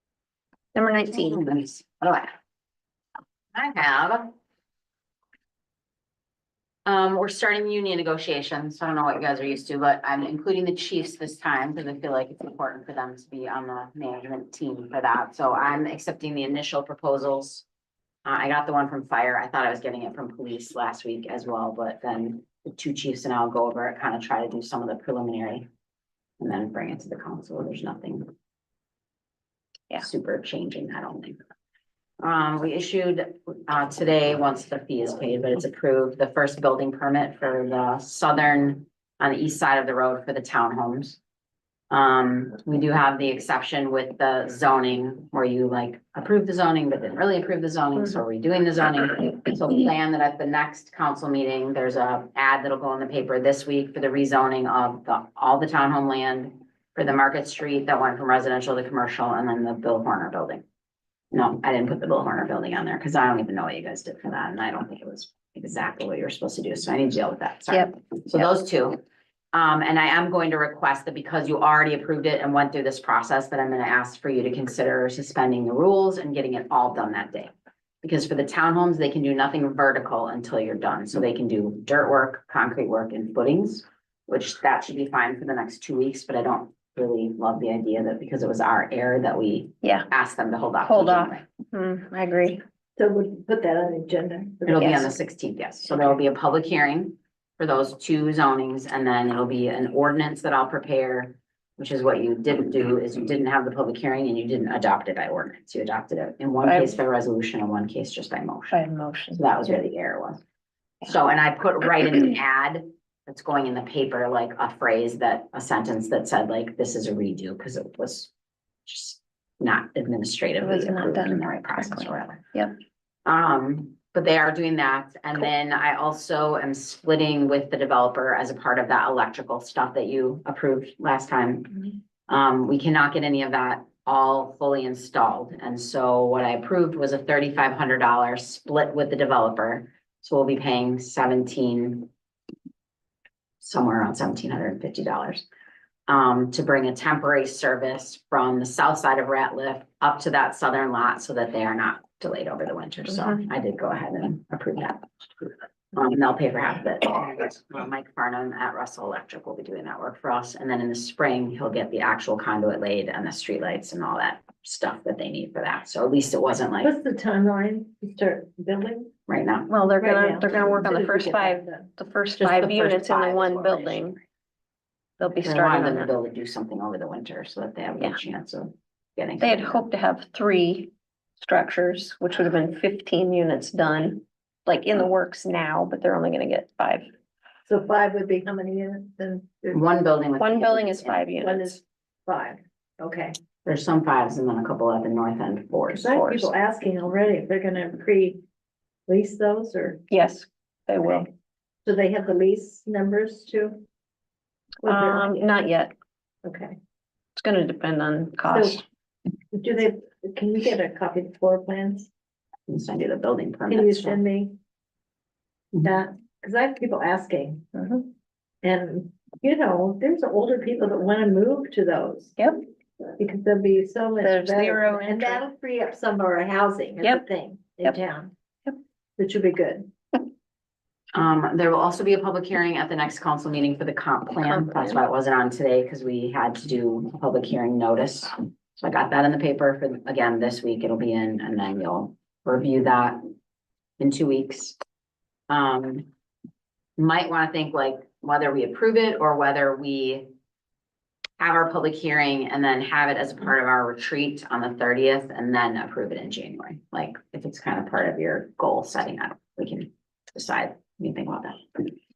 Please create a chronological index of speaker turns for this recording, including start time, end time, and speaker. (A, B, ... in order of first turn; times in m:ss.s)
0:00.8-0:01.4 A
0:01.1-0:02.4 B
0:03.5-0:04.4 B
0:06.9-0:17.6 B
0:18.2-0:25.7 B
0:26.4-0:28.3 B
0:29.9-0:31.4 B
0:32.2-0:41.2 B
0:41.9-1:00.6 B
1:01.3-1:09.0 B
1:07.7-1:08.0 A
1:09.5-1:17.5 B
1:18.0-1:31.4 B
1:30.8-1:32.6 A
1:33.0-1:35.2 C
1:34.7-1:48.8 B
1:34.8-1:35.1 A
1:46.6-1:47.0 A
1:48.7-1:49.5 A
1:49.4-1:50.4 B
1:51.0-1:58.3 B
1:58.9-2:02.5 B
2:00.6-2:02.7 A
2:03.2-2:22.1 B
2:23.6-2:25.5 B
2:26.1-2:46.9 B
2:46.8-2:49.2 C
2:49.3-2:49.7 B
2:49.7-2:54.2 A
2:50.0-2:51.9 C
2:52.4-2:54.2 B
2:55.2-2:56.1 A
2:55.4-2:59.8 B
2:59.4-3:07.1 A
3:07.6-3:09.8 C
3:09.7-3:11.3 B
3:10.4-3:11.8 A
3:11.4-3:13.4 C
3:13.6-3:16.1 B
3:15.9-3:18.4 C
3:16.0-3:16.5 A
3:19.1-3:20.0 C
3:20.1-3:21.3 A
3:21.8-3:23.8 C
3:24.8-3:25.4 C
3:24.8-3:25.9 A
3:26.4-3:26.8 C
3:27.4-3:28.8 A
3:28.5-3:28.8 C
3:29.5-3:32.1 C
3:32.7-3:34.2 B
3:33.7-3:34.6 C
3:35.8-3:37.6 C
3:37.8-3:38.1 A
3:38.6-3:42.4 C
3:43.2-3:48.3 C
3:44.2-3:45.4 A
3:49.2-3:49.9 C
3:51.1-4:03.2 B
3:54.5-3:55.0 A
4:04.0-4:04.8 B
4:05.5-4:06.1 B
4:07.0-4:10.3 B
4:11.4-4:21.9 B